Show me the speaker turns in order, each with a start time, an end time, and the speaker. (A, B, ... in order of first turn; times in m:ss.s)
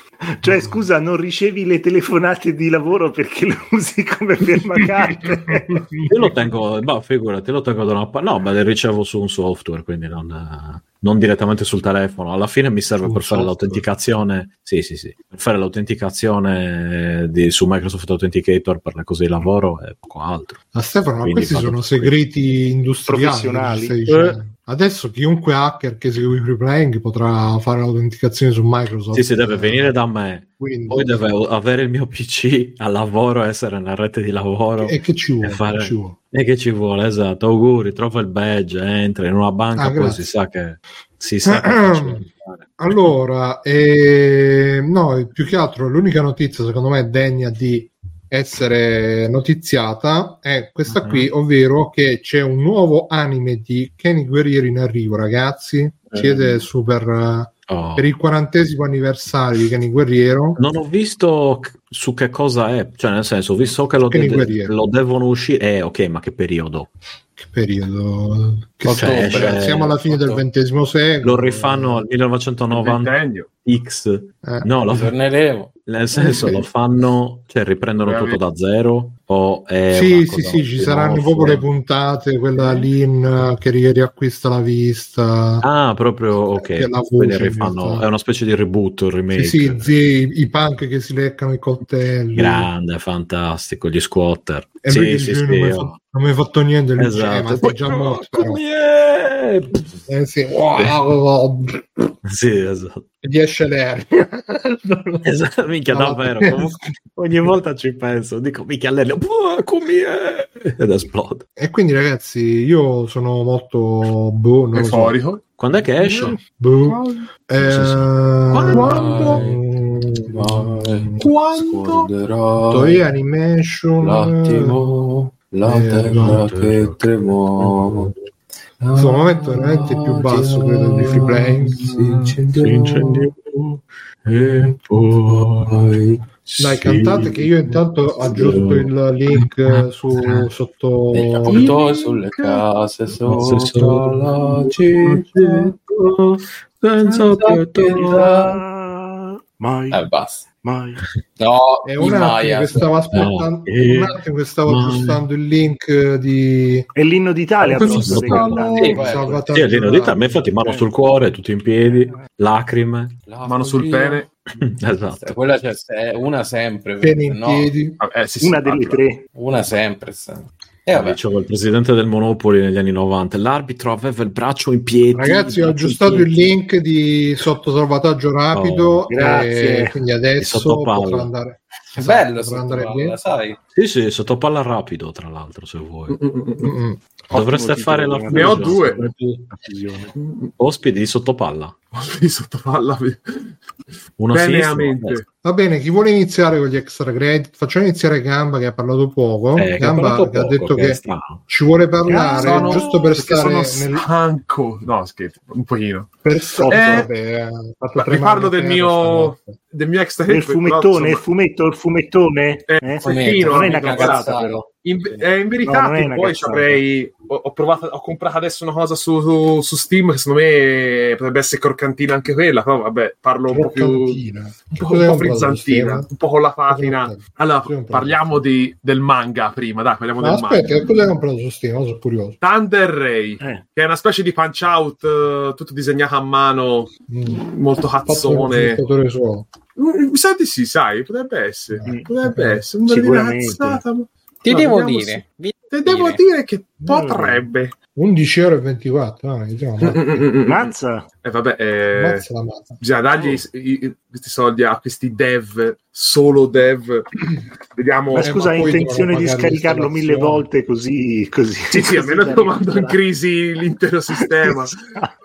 0:00.3-0:05.8 A
0:05.7-0:06.0 B
0:06.1-0:20.6 C
0:13.0-0:13.8 B
0:20.7-0:29.9 B
0:21.2-0:22.1 C
0:23.1-0:24.0 A
0:24.1-0:24.3 C
0:29.1-0:43.1 C
0:30.6-0:31.2 B
0:34.8-0:36.2 B
0:39.7-0:40.3 B
0:41.4-0:42.2 B
0:42.8-1:00.6 B
0:50.9-0:51.3 C
0:56.2-0:56.5 C
0:57.7-0:58.1 C
1:00.6-1:06.9 C
1:04.0-1:04.7 B
1:07.4-1:12.0 B
1:08.8-1:10.4 D
1:08.9-1:10.0 C
1:11.2-1:15.2 C
1:12.7-1:13.5 E
1:14.4-1:14.7 B
1:14.8-1:15.7 D
1:15.8-1:21.6 C
1:16.1-1:16.7 B
1:18.0-1:18.4 E
1:19.9-1:25.6 B
1:25.6-1:29.9 C
1:26.6-1:28.1 B
1:29.3-1:32.7 B
1:32.3-1:35.9 C
1:34.8-1:38.6 B
1:37.0-1:40.0 C
1:40.1-1:42.1 B
1:42.2-1:43.0 C
1:43.2-1:45.2 B
1:45.2-1:51.4 C
1:45.9-1:46.8 B
1:51.6-1:55.2 B
1:54.7-1:55.4 E
1:55.6-1:56.4 C
1:56.0-1:56.4 E
1:56.2-2:01.3 B
1:56.9-1:57.3 E
1:57.6-1:59.4 C
1:58.7-1:59.4 E
1:58.8-1:59.6 D
2:00.3-2:03.0 D
2:01.2-2:02.1 E
2:02.7-2:04.8 B
2:04.0-2:08.1 D
2:05.6-2:06.4 B
2:06.0-2:08.0 C
2:08.9-2:11.8 B
2:10.0-2:13.3 D
2:10.9-2:20.5 C
2:15.7-2:16.2 D
2:16.6-2:21.7 B
2:21.1-2:25.6 D
2:21.4-2:22.6 C
2:23.1-2:28.5 C
2:27.2-2:28.5 D
2:27.9-2:30.0 A
2:29.9-2:30.4 D
2:30.6-2:31.0 A
2:31.4-2:32.9 D
2:31.8-2:36.9 B
2:33.1-2:35.3 C
2:37.0-2:39.2 A
2:37.7-2:40.7 B
2:37.7-2:39.1 E
2:37.8-2:38.8 C
2:38.8-2:39.5 D
2:39.5-2:43.2 C
2:43.3-2:44.2 D
2:43.4-2:44.3 E
2:44.5-2:45.4 C
2:45.1-2:47.7 D
2:47.0-2:48.0 B
2:48.0-2:49.0 E
2:48.4-2:49.2 A
2:49.3-2:51.2 D
2:50.9-2:56.3 C
2:55.1-3:03.2 B
2:58.5-2:59.1 C
2:59.1-3:00.0 A
3:00.4-3:01.3 C
3:01.9-3:03.6 D
3:03.7-3:06.2 C
3:06.1-3:06.7 E
3:06.6-3:07.0 B
3:07.3-3:08.9 C
3:07.3-3:10.1 A
3:08.3-3:09.0 E
3:10.2-3:10.5 E
3:10.6-3:11.7 C
3:11.9-3:13.6 E
3:14.2-3:15.2 C
3:14.3-3:15.2 E
3:15.4-3:24.1 B
3:19.5-3:21.4 C
3:22.1-3:22.8 A
3:22.2-3:26.1 E
3:26.2-3:29.6 B
3:26.6-3:27.1 A
3:26.7-3:27.1 E
3:28.0-3:31.2 E
3:30.3-3:34.6 A
3:32.7-3:44.2 E
3:33.0-3:35.2 D
3:35.6-3:36.8 A
3:43.5-3:46.1 B
3:44.7-3:50.9 E
3:46.7-3:48.4 B
3:50.2-3:52.4 B
3:52.4-3:58.8 E
3:57.1-3:57.4 B
3:58.1-3:59.5 B
3:59.8-4:07.8 E
4:01.7-4:02.6 B
4:02.8-4:03.8 A
4:04.4-4:06.2 D
4:06.8-4:07.4 A
4:07.9-4:10.2 B
4:09.8-4:12.2 E
4:10.4-4:11.1 A
4:11.9-4:12.8 B
4:12.8-4:17.1 E
4:17.8-4:18.4 E
4:18.1-4:23.0 A
4:18.2-4:20.5 B
4:21.7-4:24.8 E
4:24.4-4:25.1 A